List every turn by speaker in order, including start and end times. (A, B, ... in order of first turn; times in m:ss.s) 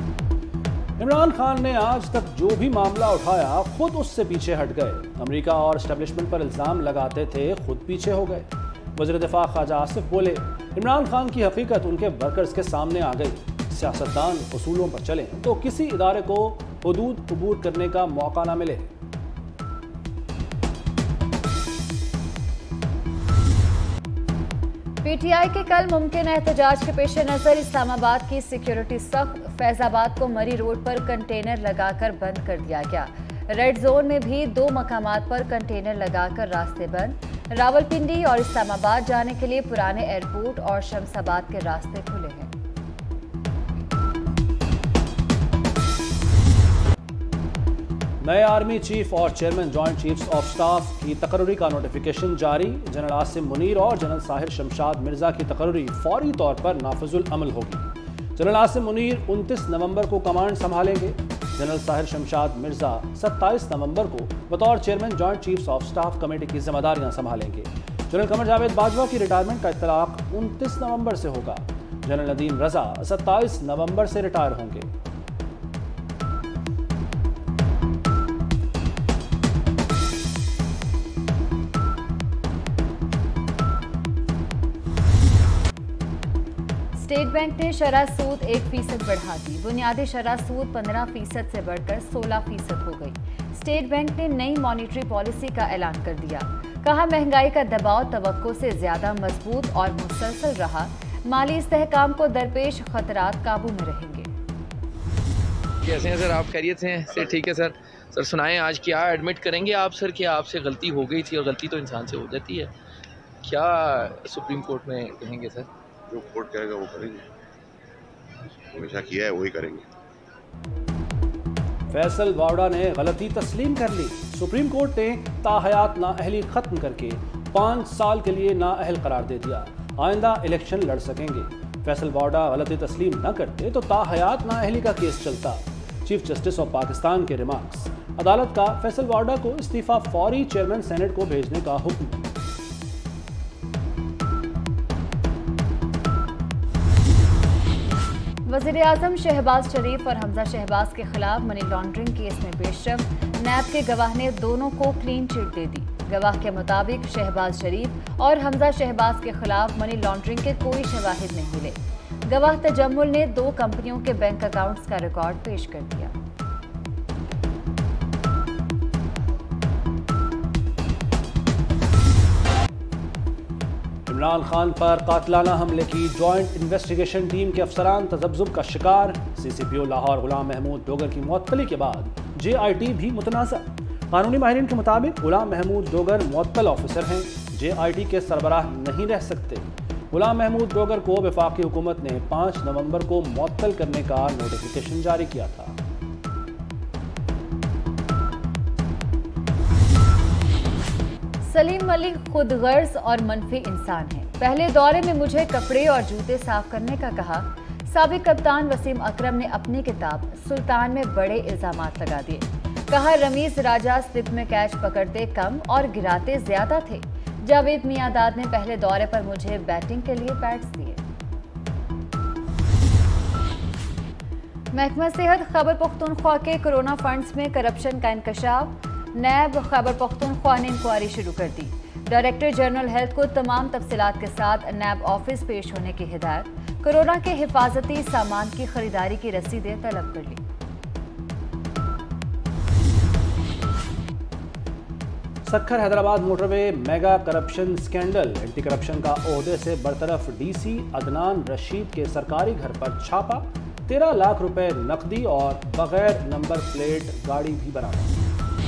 0:01.0-0:18.8 A
0:25.0-0:42.5 B
0:48.2-1:14.9 A
1:26.9-1:44.3 B
1:45.8-1:52.7 C
1:47.1-1:47.4 D
1:53.4-1:55.7 C
1:56.1-1:57.3 D
1:58.6-1:59.9 D
2:01.9-2:22.3 A
2:28.4-2:46.1 B
2:54.1-3:15.8 A
3:21.4-3:41.0 B
3:44.7-4:00.4 B
4:05.4-4:18.2 A